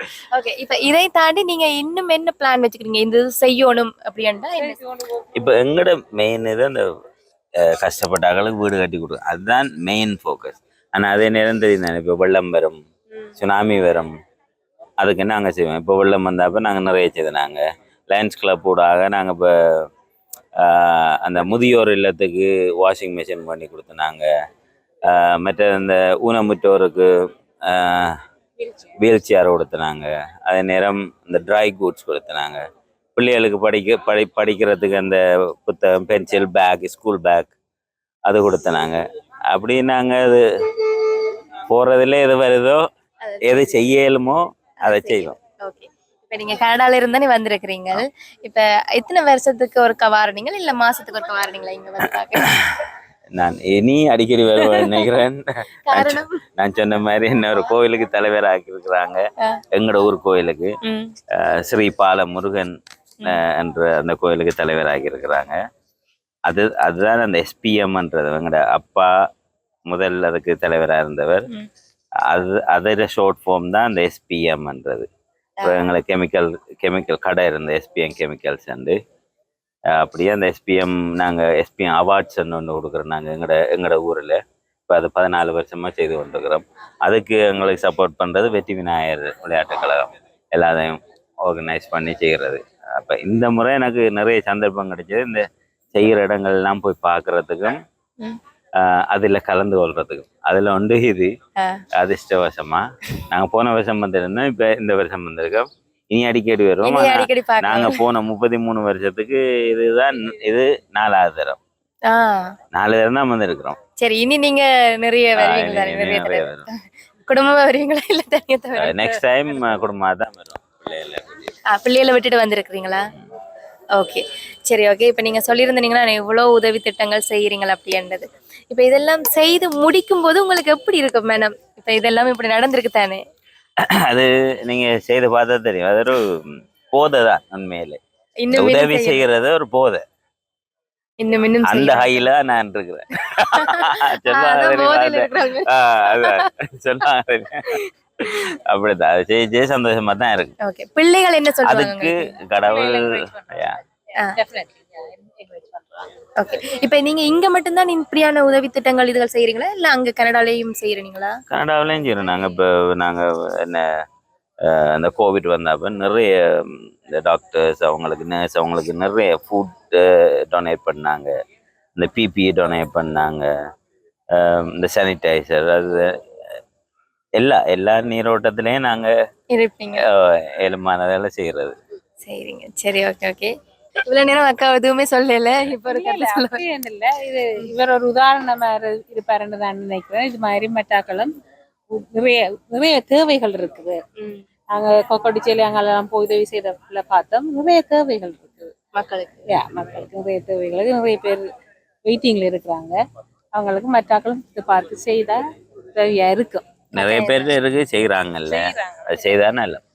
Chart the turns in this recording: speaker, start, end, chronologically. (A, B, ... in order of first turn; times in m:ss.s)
0:00.3-0:04.8 A
0:04.6-0:05.2 B
0:05.3-0:06.8 C
0:07.6-0:12.8 C
0:13.4-0:14.2 C
0:15.0-0:19.8 C
0:20.6-0:24.3 C
0:25.1-0:28.2 C
0:28.6-0:29.0 B
0:29.0-0:32.6 C
0:33.2-0:37.5 C
0:38.3-0:42.8 C
0:43.2-0:43.8 A
0:43.4-0:45.3 C
0:44.8-0:52.5 A
0:53.3-0:59.2 C
0:54.6-0:55.0 A
0:55.9-0:56.4 A
0:59.7-1:00.7 C
1:00.8-1:01.1 A
1:01.3-1:05.6 C
1:06.5-1:09.1 C
1:09.9-1:11.5 C
1:12.3-1:15.1 C
1:15.6-1:15.9 A
1:15.6-1:19.0 C
1:19.9-1:37.8 C
1:38.8-1:41.3 C
1:41.6-1:41.8 A
1:42.0-1:51.6 C
1:46.8-1:48.0 A
1:52.1-1:52.6 A
1:52.7-1:53.8 C
1:54.0-1:59.2 A
1:55.4-1:56.7 C
1:58.8-2:01.6 C
2:01.7-2:03.1 A
2:03.9-2:13.2 A
2:13.8-2:18.0 C
2:18.4-2:19.2 A
2:18.5-2:20.0 C
2:21.2-2:22.2 A
2:21.6-2:30.5 C
2:23.5-2:26.5 A
2:27.6-2:28.4 A
2:30.6-2:32.2 A
2:31.6-2:33.8 C
2:32.6-2:36.1 B
2:36.4-2:41.4 A
2:41.5-2:43.9 C
2:44.6-2:51.3 C
2:52.0-2:53.5 C
2:54.3-2:56.1 C
2:57.4-2:59.1 C
2:59.5-3:00.0 A
3:00.0-3:01.8 C
3:02.2-3:03.5 A
3:04.0-3:06.6 A
3:05.8-3:11.3 B
3:11.9-3:14.0 B
3:14.2-3:14.4 A
3:14.7-3:18.9 B
3:18.9-3:19.3 A
3:19.5-3:21.4 B
3:22.0-3:23.0 B
3:23.5-3:25.4 B
3:25.9-3:26.8 B
3:26.9-3:27.5 A
3:26.9-3:29.8 C
3:28.5-3:29.4 B